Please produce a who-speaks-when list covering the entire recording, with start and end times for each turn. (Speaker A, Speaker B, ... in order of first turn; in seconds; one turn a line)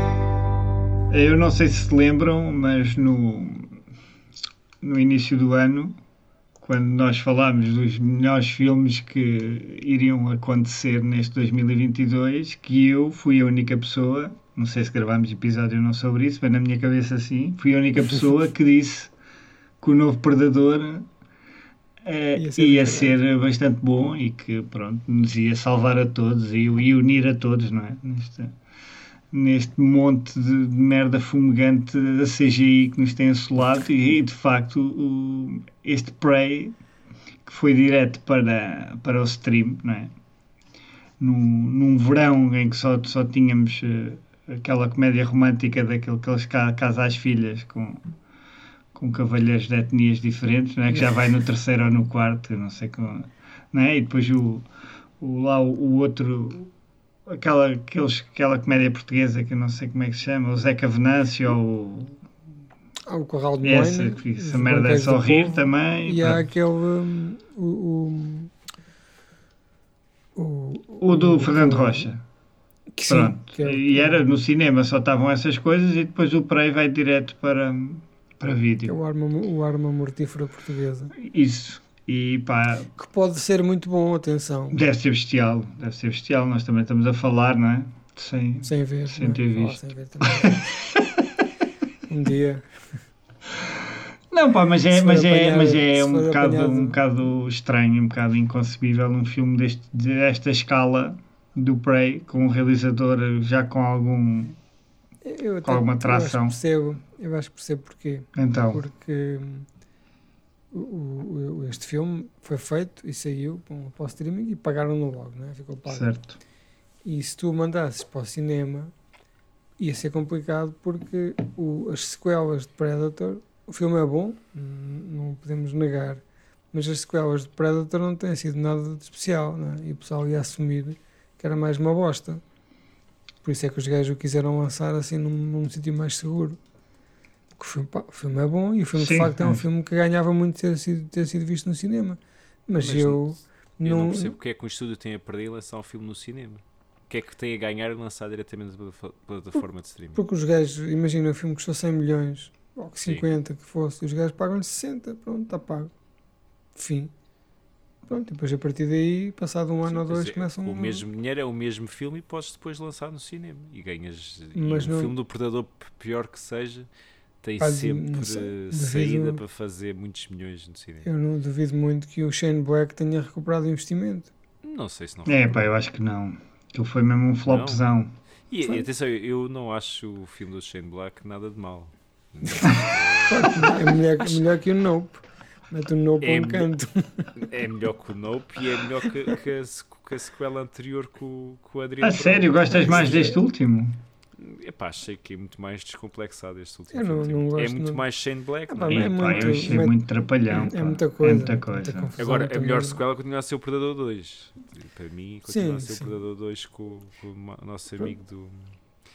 Speaker A: 1.1-3.8
Speaker A: 4.8-6.0
Speaker A: 6.6-19.1
Speaker A: 19.8-21.1
Speaker A: 22.0-28.5
Speaker B: 22.3-23.1
Speaker A: 29.3-36.7
Speaker A: 37.5-40.1
Speaker A: 41.2-48.0
Speaker A: 48.9-54.7
Speaker A: 55.2-56.7
Speaker A: 57.3-62.2
Speaker B: 63.1-68.5
Speaker A: 63.6-66.5
Speaker B: 70.3-72.1
Speaker A: 71.0-72.2
Speaker B: 72.9-74.2
Speaker A: 73.1-78.9
Speaker B: 78.8-81.1
Speaker A: 81.1-82.9
Speaker B: 82.9-84.8
Speaker A: 84.7-91.0
Speaker B: 88.6-90.6
Speaker B: 92.0-92.7
Speaker A: 94.3-104.6
Speaker B: 94.9-97.0
Speaker B: 105.2-109.7
Speaker A: 105.6-106.5
Speaker A: 108.3-108.8
Speaker B: 110.7-116.1
Speaker A: 115.9-116.4
Speaker B: 117.0-118.9
Speaker B: 119.8-132.4
Speaker B: 133.4-136.6
Speaker B: 137.6-144.3
Speaker A: 138.9-139.6
Speaker C: 142.8-150.2
Speaker B: 150.1-155.9
Speaker B: 156.7-157.1
Speaker B: 158.1-161.0
Speaker C: 159.8-166.9
Speaker B: 164.5-165.1
Speaker C: 167.4-171.1
Speaker B: 167.6-169.4
Speaker B: 171.0-174.3
Speaker C: 174.6-175.6
Speaker A: 175.2-178.1
Speaker C: 177.5-177.8
Speaker C: 178.5-184.4
Speaker B: 183.2-187.3
Speaker C: 186.2-186.7
Speaker C: 187.3-193.3
Speaker A: 192.0-194.0
Speaker B: 192.8-193.3
Speaker C: 194.4-199.7
Speaker B: 196.9-198.0
Speaker B: 198.7-203.0
Speaker A: 198.9-202.1
Speaker C: 202.2-208.8
Speaker B: 205.5-206.1